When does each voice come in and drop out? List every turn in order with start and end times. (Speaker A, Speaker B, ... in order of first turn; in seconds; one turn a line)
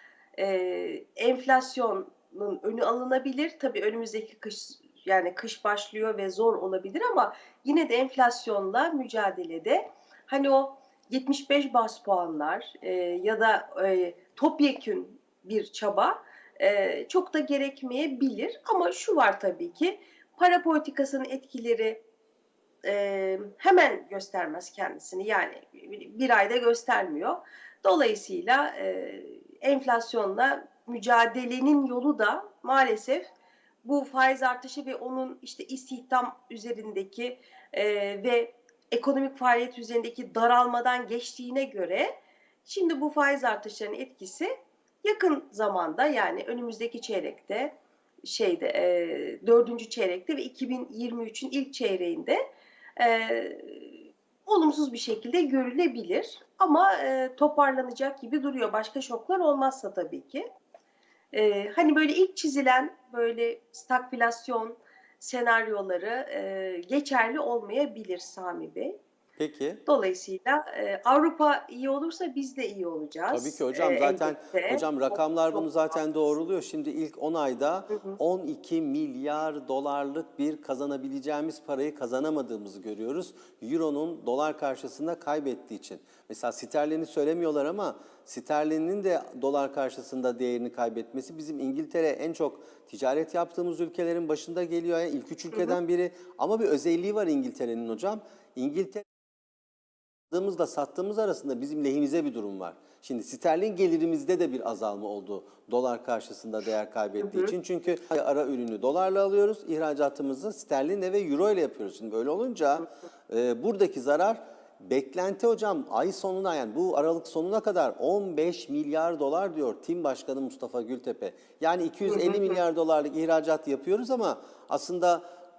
Speaker A: 0.4-22.0
Speaker A: 22.8-33.3
Speaker A: 33.8-42.1
Speaker A: 42.7-52.4
Speaker A: 53.0-60.5
Speaker A: 61.3-69.0
Speaker B: 69.4-69.8
Speaker A: 69.9-75.7
Speaker B: 73.3-99.0
Speaker A: 77.9-78.2
Speaker A: 95.5-95.8
Speaker B: 100.3-125.2
Speaker A: 107.2-107.5
Speaker A: 122.1-122.6